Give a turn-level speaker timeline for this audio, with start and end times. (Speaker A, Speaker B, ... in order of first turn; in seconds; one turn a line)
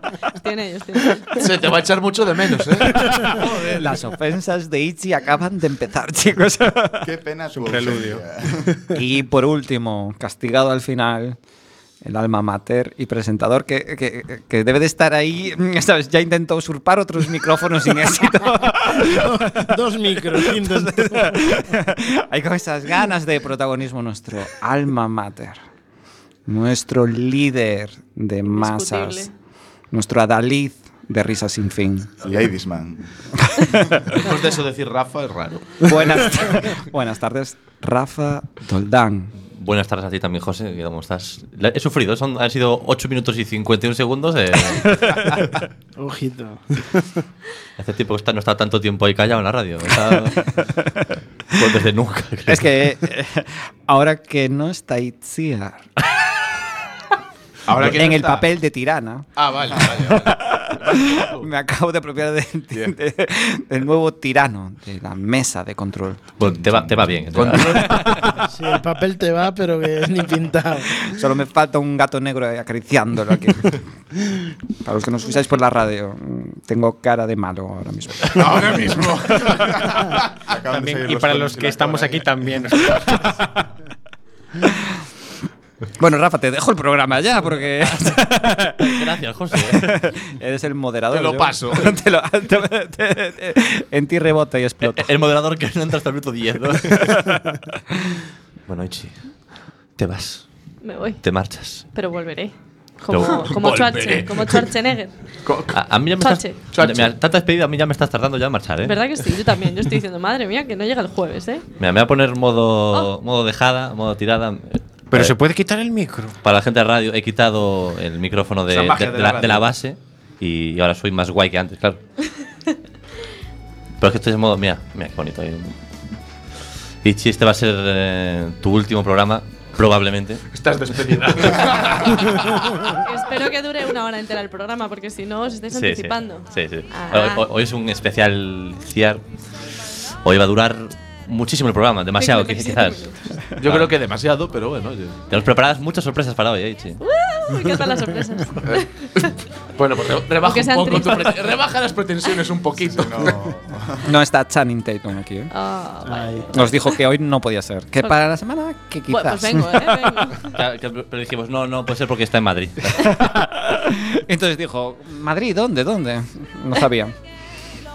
Speaker A: 0.3-1.4
Speaker B: 1.3-4.0
Speaker C: 3.0-7.1
Speaker D: 7.0-8.8
Speaker E: 7.5-8.2
Speaker C: 8.9-11.4
Speaker C: 12.0-25.6
Speaker F: 18.9-21.4
Speaker C: 26.5-29.3
Speaker A: 28.5-29.3
Speaker C: 29.9-32.2
Speaker D: 32.2-33.1
Speaker C: 33.5-34.0
Speaker B: 34.1-36.2
Speaker C: 35.9-39.3
Speaker G: 39.5-45.1
Speaker F: 46.0-47.2
Speaker G: 47.8-50.5
Speaker G: 51.5-52.7
Speaker C: 52.5-55.9
Speaker B: 57.6-58.5
Speaker C: 57.7-59.3
Speaker B: 59.4-61.5
Speaker C: 59.9-66.2
Speaker G: 66.4-68.2
Speaker D: 66.4-67.2
Speaker B: 67.3-68.4
Speaker F: 68.5-71.0
Speaker C: 71.1-73.8
Speaker C: 74.8-79.0
Speaker B: 78.4-79.5
Speaker D: 78.4-83.0
Speaker E: 80.6-83.5
Speaker C: 86.0-95.1
Speaker G: 87.8-89.9
Speaker B: 91.1-92.0
Speaker G: 94.8-97.2
Speaker C: 96.9-97.4
Speaker G: 98.7-99.4
Speaker G: 100.0-100.5
Speaker A: 100.8-101.2
Speaker G: 101.2-101.9
Speaker A: 101.9-105.2
Speaker G: 103.1-103.5
Speaker B: 103.2-104.7
Speaker B: 105.5-105.8
Speaker G: 105.7-109.0
Speaker A: 106.2-106.6
Speaker B: 106.7-107.1
Speaker A: 108.8-111.6
Speaker G: 111.8-115.4
Speaker E: 115.1-116.3
Speaker G: 116.4-122.0
Speaker B: 118.8-119.6
Speaker G: 124.0-125.8
Speaker G: 127.0-130.4
Speaker B: 130.5-132.8
Speaker A: 133.0-137.4
Speaker G: 135.7-139.2
Speaker G: 140.2-143.1
Speaker A: 142.2-143.3
Speaker B: 143.6-145.2
Speaker G: 145.3-147.0
Speaker A: 147.0-149.3
Speaker B: 148.6-153.4
Speaker A: 150.4-151.4
Speaker D: 152.9-154.1
Speaker C: 154.0-155.5
Speaker A: 155.5-156.9
Speaker F: 156.1-156.4
Speaker C: 156.5-160.3
Speaker A: 159.1-160.5
Speaker G: 160.5-163.2
Speaker C: 163.0-167.1